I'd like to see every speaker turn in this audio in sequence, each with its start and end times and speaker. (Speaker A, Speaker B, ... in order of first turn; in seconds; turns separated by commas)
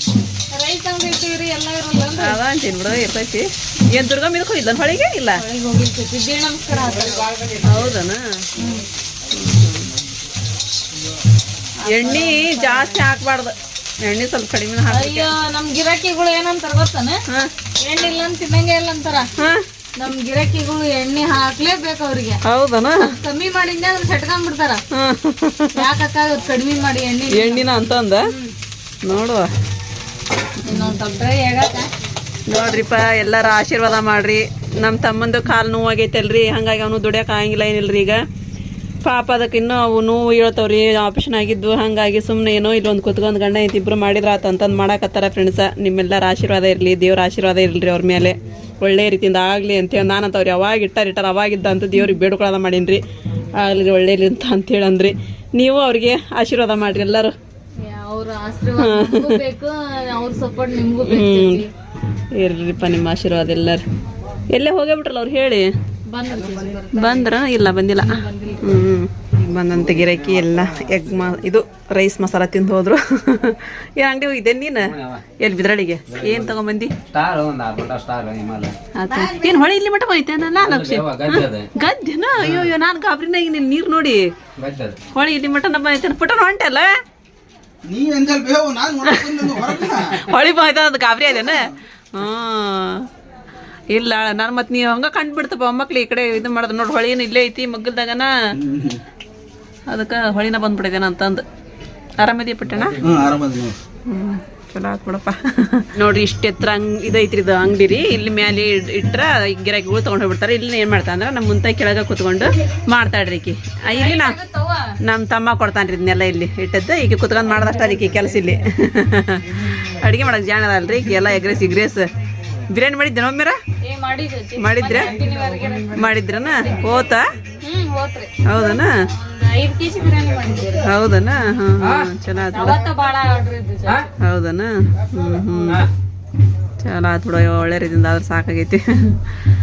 Speaker A: 0.5-2.4, Speaker B: 2.2-5.4, Speaker A: 5.3-7.5, Speaker B: 7.6-8.2, Speaker A: 8.6-8.8, Speaker B: 9.3-9.9, Speaker A: 11.8-13.1, Speaker B: 11.9-13.5, Speaker B: 14.0-15.3, Speaker A: 14.9-17.2, Speaker A: 17.8-19.3, Speaker B: 19.4-19.6, Speaker A: 20.0-22.4, Speaker B: 22.4-23.1, Speaker A: 23.0-24.8, Speaker B: 24.9-25.8, Speaker A: 25.7-27.7, Speaker B: 27.3-28.3, Speaker A: 28.2-28.5, Speaker B: 29.0-29.5, Speaker A: 30.6-31.9, Speaker B: 30.7-30.9, Speaker B: 32.5-38.2, Speaker B: 39.0-53.0, Speaker B: 53.5-57.3, Speaker A: 57.8-61.7, Speaker B: 58.8-59.4, Speaker B: 61.0-61.6, Speaker B: 62.3-63.8, Speaker B: 64.5-65.7, Speaker A: 66.1-67.3, Speaker B: 66.9-76.9, Speaker A: 68.0-68.8, Speaker C: 69.9-70.5, Speaker C: 74.8-75.2, Speaker C: 76.1-76.5, Speaker C: 77.1-79.6, Speaker B: 79.0-84.2, Speaker C: 80.6-81.7, Speaker C: 82.4-82.7, Speaker C: 84.6-85.0, Speaker B: 85.1-86.9, Speaker D: 87.9-90.2, Speaker B: 89.0-93.1, Speaker B: 93.9-98.3, Speaker D: 98.6-99.0, Speaker B: 99.9-101.4, Speaker B: 102.2-103.0, Speaker C: 102.8-103.2, Speaker D: 103.0-103.7, Speaker B: 104.1-114.4, Speaker A: 113.9-114.8, Speaker B: 115.0-122.1, Speaker B: 122.7-123.6, Speaker A: 123.8-126.9, Speaker B: 124.6-125.2, Speaker B: 125.9-127.2, Speaker A: 127.6-130.9, Speaker B: 128.4-128.9, Speaker B: 130.8-132.8, Speaker A: 132.5-134.1, Speaker B: 134.2-135.9, Speaker B: 136.8-139.2